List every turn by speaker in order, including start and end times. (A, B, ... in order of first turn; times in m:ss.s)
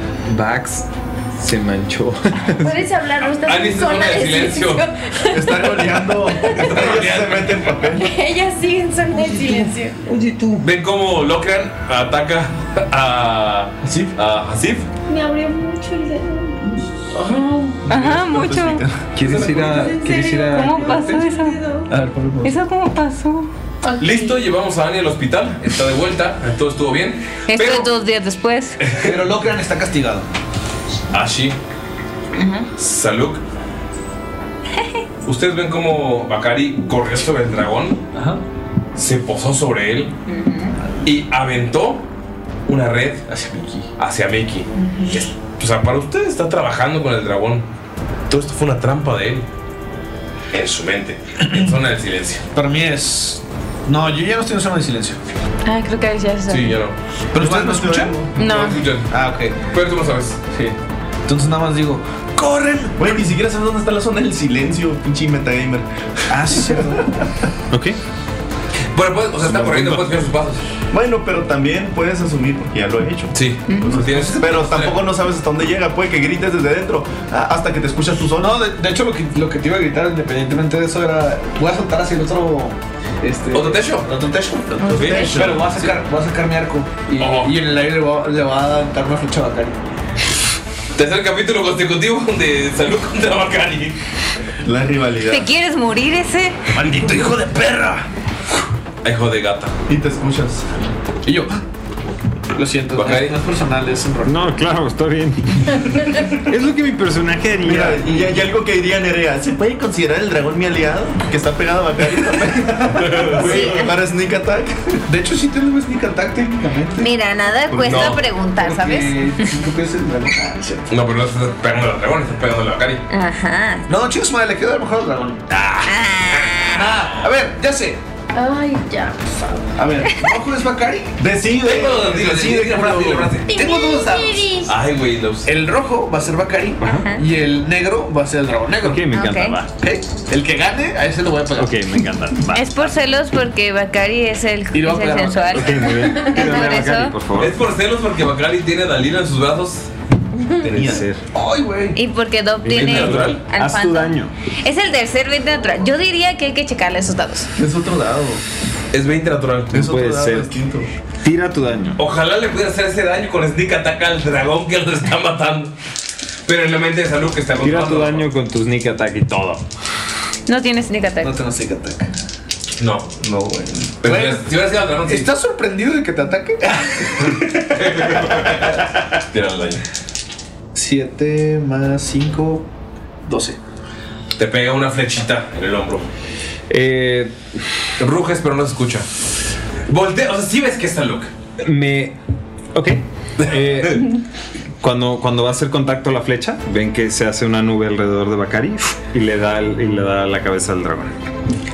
0:00.2-0:02.8 A
0:02.6-0:06.6 B
0:03.3-0:04.9 C
0:05.3-0:08.1 D
0:06.4-0:07.8 C
0:08.0-0:10.0 B
0:09.4-0:10.6 A
0:10.6-0:14.9 C
0:13.8-0:14.1 E
0:15.2-0:15.9 F
0:15.3-0:16.4 B
0:17.1-0:17.8 C
0:17.9-0:18.8 F
0:17.9-0:19.7 D
0:19.1-0:21.2 A
0:19.7-0:21.6 B
0:19.8-0:21.9 F
0:21.9-0:22.6 E
0:22.4-0:23.5 F
0:23.8-0:24.4 B
0:24.0-0:27.9 C
0:27.4-0:28.9 F
0:28.8-0:29.1 C
0:29.0-0:30.3 E
0:31.1-0:31.6 C
0:32.3-0:32.7 F
0:32.8-0:33.4 C
0:35.2-0:38.0 C
0:38.1-0:38.4 E
0:39.0-0:40.1 C
0:40.3-0:40.8 F
0:41.0-0:42.0 C
0:42.7-0:43.2 C
0:43.3-0:43.9 E
0:44.0-0:47.6 C
0:44.8-0:45.2 F
0:48.3-0:49.4 C
0:50.5-0:52.4 C
0:52.5-0:55.2 E
0:55.6-0:56.8 F
0:56.5-0:57.0 C
0:57.3-0:58.3 E
0:57.3-0:58.3 D
0:58.3-0:58.9 F
0:58.4-0:59.1 C
0:59.1-0:59.6 E
0:59.6-1:00.4 C
1:01.3-1:02.9 E
1:03.0-1:07.3 D
1:06.3-1:07.2 E
1:07.7-1:08.0 A
1:08.9-1:10.6 C
1:09.4-1:10.0 A
1:10.9-1:18.6 D
1:13.3-1:15.0 C
1:13.7-1:14.0 F
1:14.0-1:14.4 E
1:18.4-1:29.8 E
1:23.5-1:24.1 C
1:24.8-1:25.6 D
1:24.8-1:25.4 F
1:24.9-1:25.9 C
1:27.2-1:27.5 C
1:31.0-1:34.0 C
1:34.6-1:35.5 D
1:35.3-1:36.6 F
1:36.7-1:38.0 E
1:39.0-1:39.7 C
1:39.9-1:40.7 D
1:41.2-1:41.6 E
1:42.5-1:44.4 E
1:42.9-1:43.3 C
1:44.2-1:48.0 A
1:47.6-1:55.0 D
1:52.9-1:53.6 C
1:53.3-1:53.8 E
1:53.5-1:53.9 F
1:55.1-1:57.1 E
1:57.0-1:59.5 F
1:57.7-1:58.1 D
1:57.8-1:58.2 C
1:58.6-2:00.9 E
2:00.9-2:03.0 C
2:03.1-2:03.9 F
2:03.9-2:05.9 E
2:05.8-2:06.8 F
2:06.6-2:08.0 E
2:08.3-2:09.5 B
2:09.8-2:14.5 E
2:11.2-2:12.9 D
2:11.6-2:13.5 C
2:13.5-2:14.7 B
2:14.6-2:15.5 C
2:15.4-2:19.1 E
2:16.8-2:17.2 F
2:18.8-2:19.7 A
2:19.1-2:19.6 F
2:19.8-2:21.8 E
2:21.5-2:23.0 A
2:22.5-2:27.2 F
2:24.7-2:25.6 E
2:25.5-2:27.5 A
2:27.4-2:29.9 C
2:30.6-2:31.0 D
2:30.7-2:31.2 A
2:31.3-2:32.0 E
2:31.9-2:37.5 F
2:32.6-2:34.3 A
2:32.7-2:33.4 C
2:37.6-2:38.4 D
2:38.9-2:39.8 C
2:39.7-2:40.9 D
2:39.7-2:40.6 A
2:41.2-2:42.0 A
2:42.0-2:45.7 C
2:46.4-2:48.2 C
2:47.6-2:49.6 A
2:50.5-2:51.3 F
2:51.2-2:52.1 E
2:52.8-2:53.1 C
2:53.2-2:54.0 D
2:54.0-2:55.3 C
2:54.0-2:54.5 E
2:55.0-2:58.7 E
2:57.7-2:59.8 C
3:00.7-3:02.7 E
3:03.2-3:03.6 E
3:04.4-3:06.1 C
3:06.7-3:07.6 A
3:08.0-3:09.1 C
3:09.9-3:11.3 C
3:11.6-3:12.2 A
3:12.7-3:14.1 A
3:13.4-3:14.0 C
3:14.8-3:21.1 A